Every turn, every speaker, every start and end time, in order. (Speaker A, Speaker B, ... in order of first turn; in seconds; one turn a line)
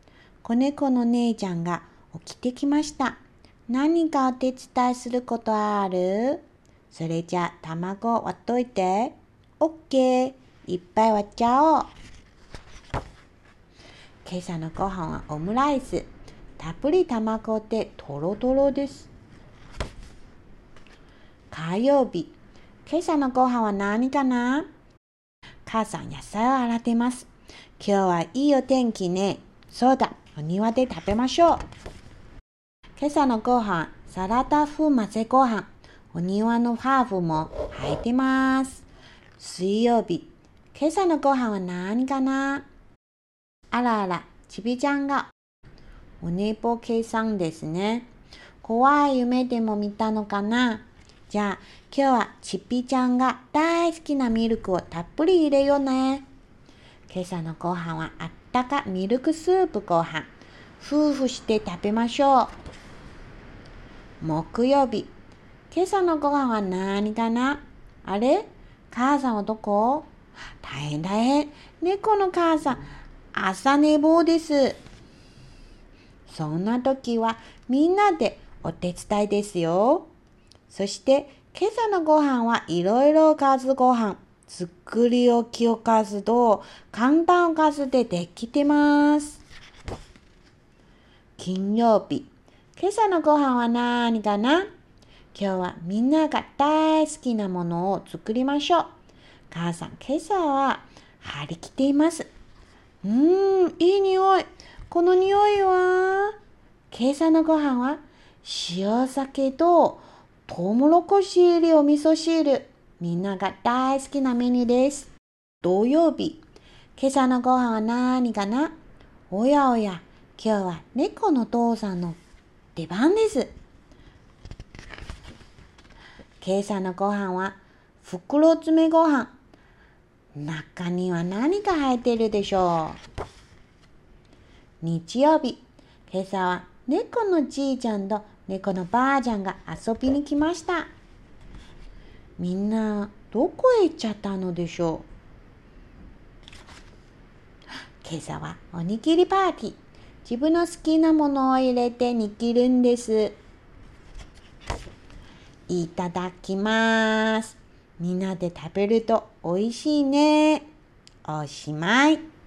Speaker A: 0.4-11.9
Speaker A: 14.2-16.1
Speaker A: 16.6-19.1
Speaker A: 21.5-22.3
Speaker A: 22.9-24.7
Speaker A: 25.6-27.3
Speaker A: 27.8-31.6
Speaker A: 33.0-38.8
Speaker A: 39.4-42.6
Speaker A: 43.7-45.3
Speaker A: 46.2-48.1
Speaker A: 48.6-56.2
Speaker A: 57.1-60.3
Speaker A: 60.8-62.5
Speaker A: 64.2-65.1
Speaker A: 65.7-70.1
Speaker A: 70.6-72.8
Speaker A: 73.3-74.8
Speaker A: 76.3-80.1
Speaker A: 80.7-89.4
Speaker A: 91.4-94.7
Speaker A: 95.3-98.9
Speaker A: 99.5-102.3
Speaker A: 103.0-106.4
Speaker A: 106.9-115.1
Speaker A: 115.6-116.4
Speaker A: 117.0-118.7
Speaker A: 119.3-122.2
Speaker A: 122.8-123.5
Speaker A: 126.4-129.3
Speaker A: 130.3-133.0
Speaker A: 134.8-140.9
Speaker A: 142.4-145.0
Speaker A: 148.0-153.4
Speaker A: 155.7-160.7
Speaker A: 161.2-162.2